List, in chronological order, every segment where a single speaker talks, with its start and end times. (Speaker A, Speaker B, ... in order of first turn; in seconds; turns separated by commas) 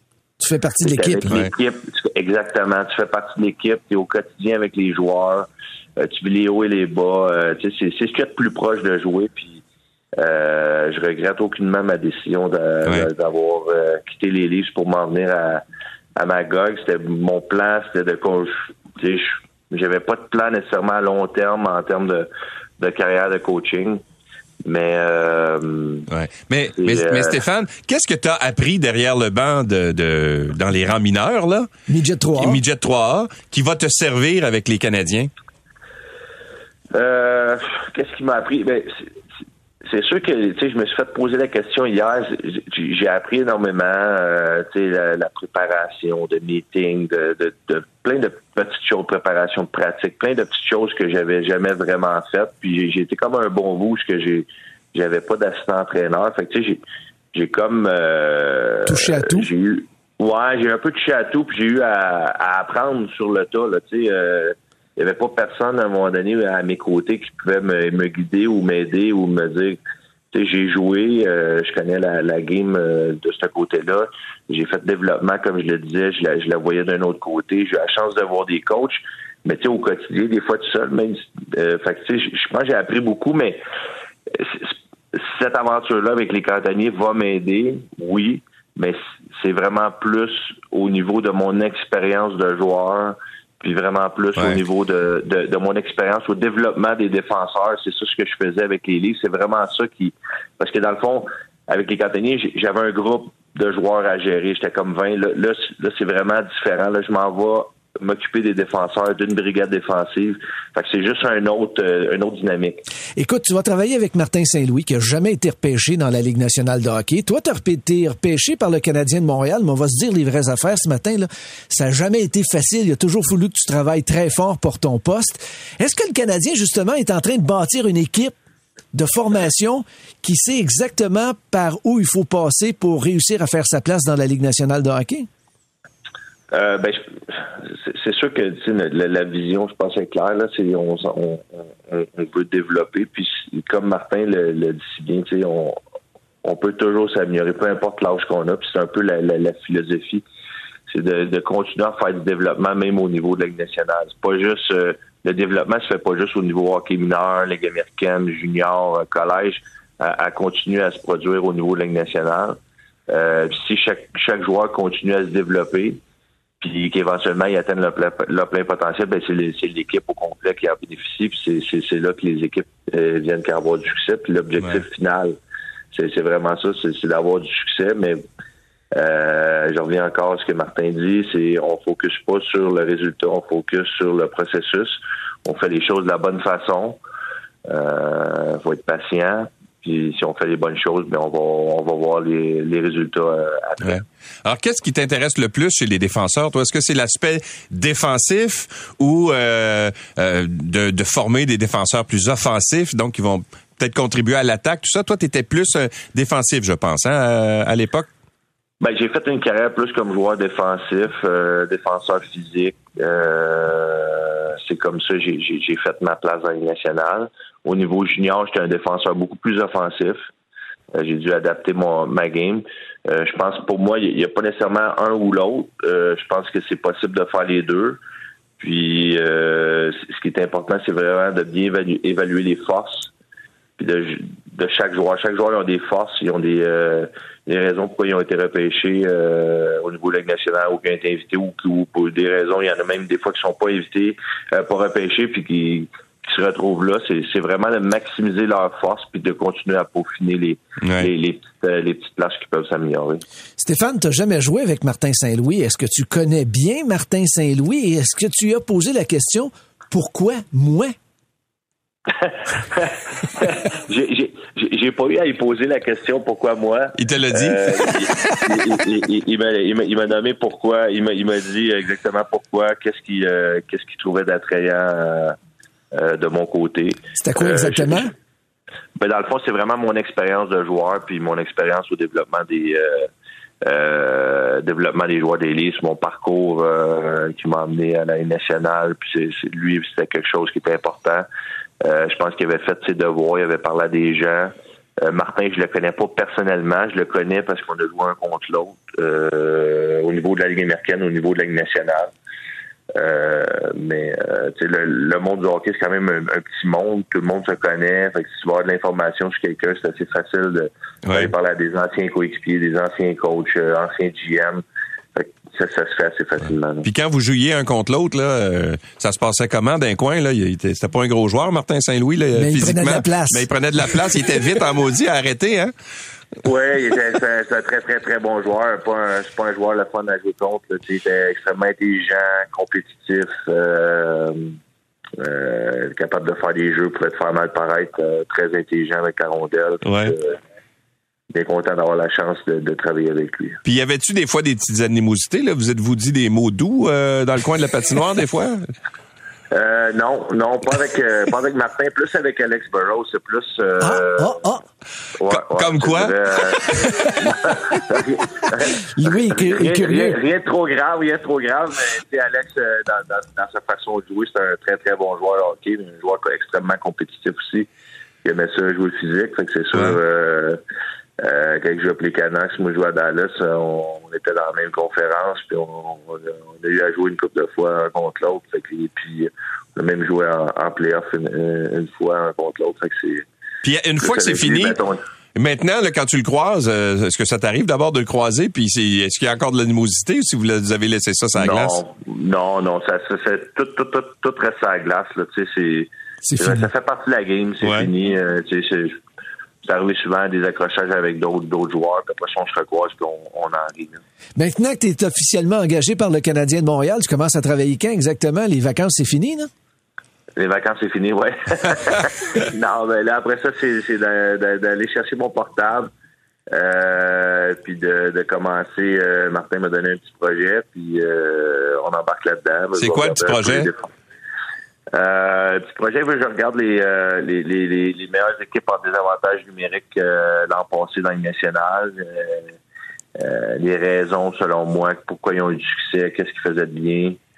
Speaker A: 0.4-1.5, Speaker B: 0.8-9.6, Speaker B: 10.2-15.6, Speaker B: 16.1-24.0, Speaker B: 24.6-26.1, Speaker C: 26.1-31.7, Speaker B: 26.7-27.4, Speaker A: 31.9-32.6, Speaker C: 32.4-35.3, Speaker B: 36.9-39.1, Speaker B: 39.8-69.8, Speaker A: 58.9-59.5, Speaker B: 70.3-83.6, Speaker B: 84.3-112.8, Speaker A: 113.2-128.3, Speaker A: 128.9-135.3, Speaker B: 136.5-145.8, Speaker B: 146.4-150.2, Speaker B: 150.9-166.0, Speaker B: 166.6-175.4, Speaker B: 175.9-178.2, Speaker B: 178.9-187.0, Speaker B: 187.7-194.0, Speaker C: 193.8-208.1, Speaker B: 208.8-220.3, Speaker B: 220.9-228.0, Speaker B: 228.6-233.1, Speaker B: 233.8-253.2, Speaker C: 250.8-251.1, Speaker A: 253.6-260.9, Speaker B: 262.2-275.4, Speaker C: 267.0-268.0, Speaker B: 275.9-278.0, Speaker A: 277.2-278.1, Speaker B: 279.0-283.1, Speaker B: 283.6-291.2, Speaker B: 291.8-302.1, Speaker B: 302.9-314.6, Speaker C: 311.1-311.3, Speaker B: 315.1-316.9, Speaker C: 316.8-325.7, Speaker A: 322.3-323.5, Speaker B: 326.4-334.6, Speaker B: 335.2-340.4, Speaker C: 339.8-340.1, Speaker B: 341.3-343.6, Speaker C: 343.6-348.7, Speaker B: 349.5-354.4, Speaker A: 353.8-354.6, Speaker B: 355.2-356.7, Speaker C: 355.3-357.3, Speaker B: 357.2-367.7, Speaker A: 358.9-360.2, Speaker B: 368.2-370.6, Speaker B: 371.2-383.2, Speaker C: 383.6-384.8, Speaker B: 384.0-385.0, Speaker C: 385.4-391.8, Speaker B: 391.4-399.0, Speaker A: 396.2-396.6, Speaker C: 397.6-397.9, Speaker B: 399.6-404.0, Speaker A: 404.4-409.5, Speaker B: 410.4-415.9, Speaker B: 416.5-423.9, Speaker C: 422.8-423.7, Speaker B: 424.9-432.5, Speaker B: 433.2-437.2